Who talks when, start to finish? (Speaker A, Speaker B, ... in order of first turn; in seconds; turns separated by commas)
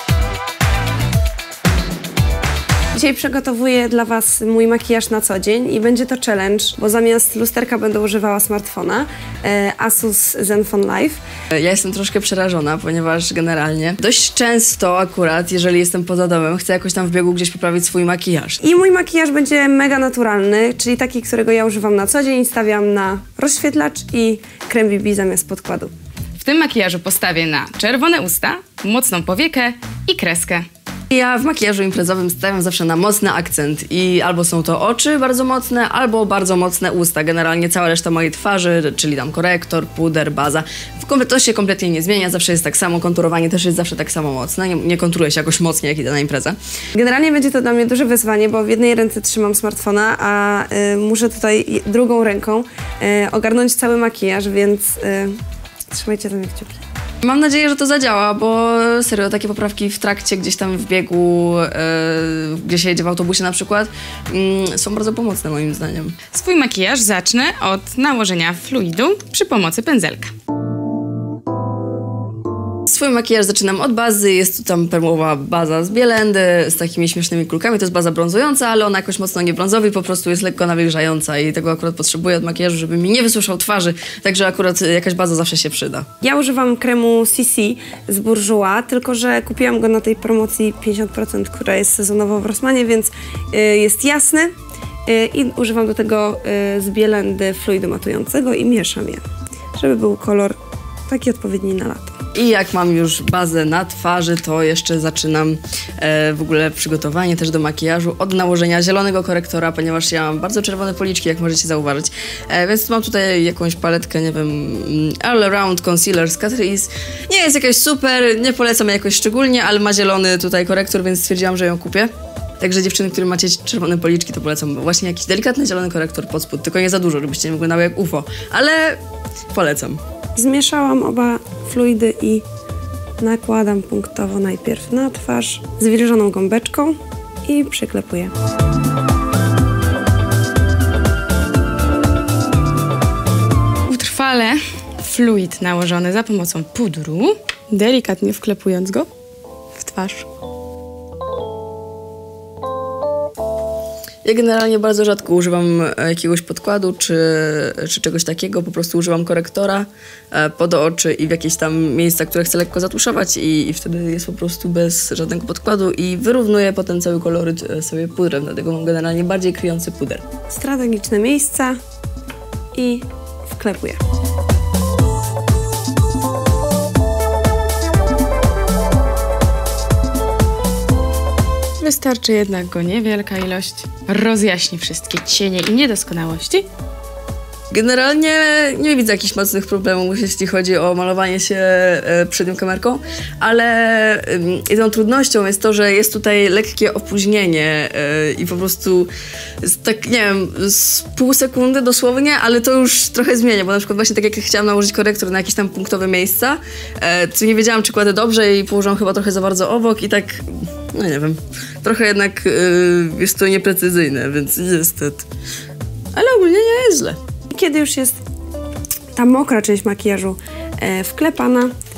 Speaker A: 2.9-11.2, Speaker B: 11.5-18.6, Speaker A: 18.6-25.9, Speaker C: 26.4-30.7, Speaker B: 31.1-46.6, Speaker A: 47.0-55.3, Speaker A: 55.9-56.8, Speaker B: 57.2-66.2, Speaker C: 66.3-70.3, Speaker B: 72.9-86.1, Speaker A: 86.2-94.5, Speaker A: 95.1-99.2, Speaker A: 99.8-100.6, Speaker A: 101.1-102.2, Speaker B: 102.3-122.1, Speaker B: 122.6-129.0, Speaker B: 129.5-130.0, Speaker A: 130.4-132.4, Speaker A: 133.2-138.3, Speaker C: 143.9-149.1, Speaker C: 149.7-150.3, Speaker B: 154.2-170.2, Speaker A: 170.5-171.8, Speaker A: 172.7-174.0, Speaker C: 181.8-186.7, Speaker B: 187.7-199.1, Speaker B: 199.6-215.3, Speaker B: 216.2-217.2, Speaker A: 217.5-218.2, Speaker A: 219.2-221.7